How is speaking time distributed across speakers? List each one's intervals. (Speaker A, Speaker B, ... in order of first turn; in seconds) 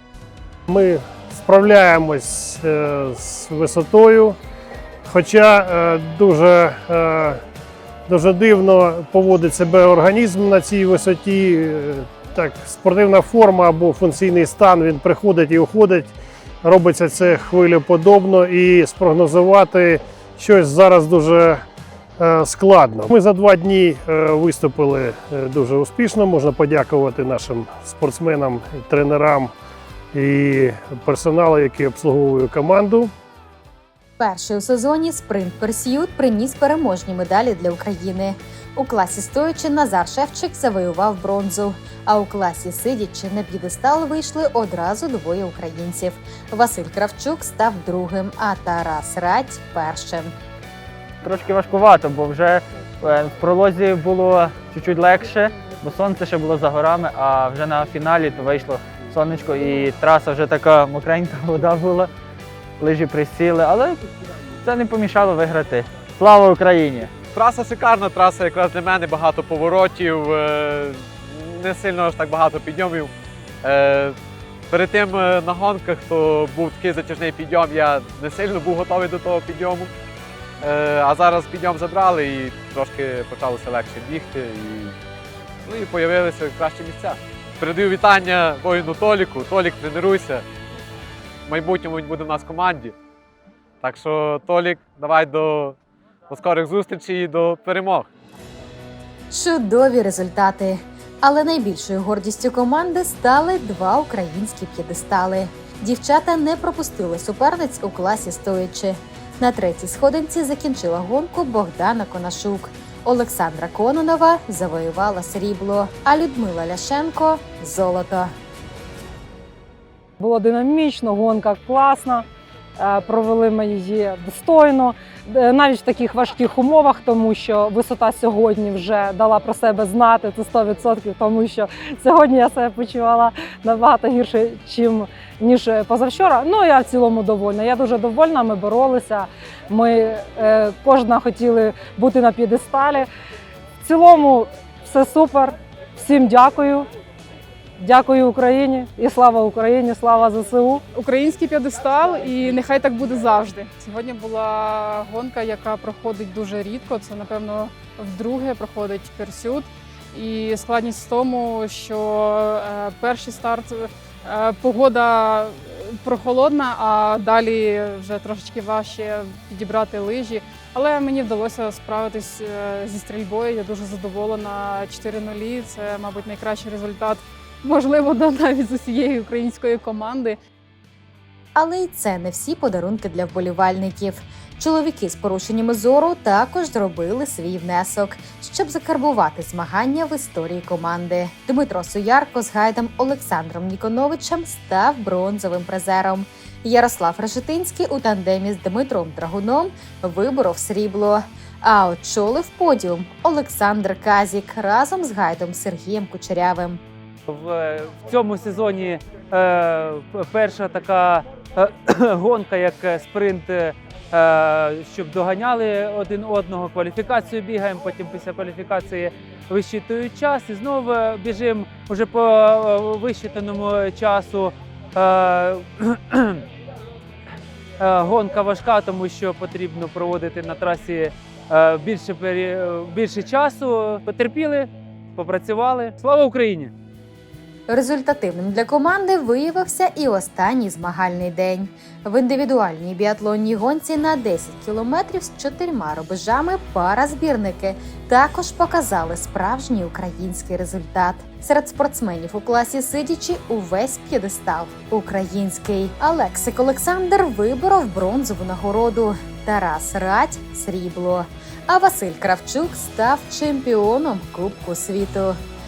Speaker A: 0.7-4.4, 5.0-7.4, 8.1-16.1, 16.6-21.6, 22.2-29.5, 30.1-33.1
Speaker B: 34.2-50.3, 99.3-118.3, 181.6-206.8, 237.7-265.4
Speaker C: 51.2-62.1, 62.8-64.0, 64.6-67.1
Speaker D: 67.3-74.2, 74.7-79.9, 80.6-85.0, 85.7-90.4, 91.5-92.9, 93.8-95.8, 96.3-98.1
Speaker E: 120.2-122.2, 122.8-143.1, 143.8-146.9, 147.8-150.8
Speaker F: 150.9-180.4
Speaker G: 207.3-226.4, 227.8-236.7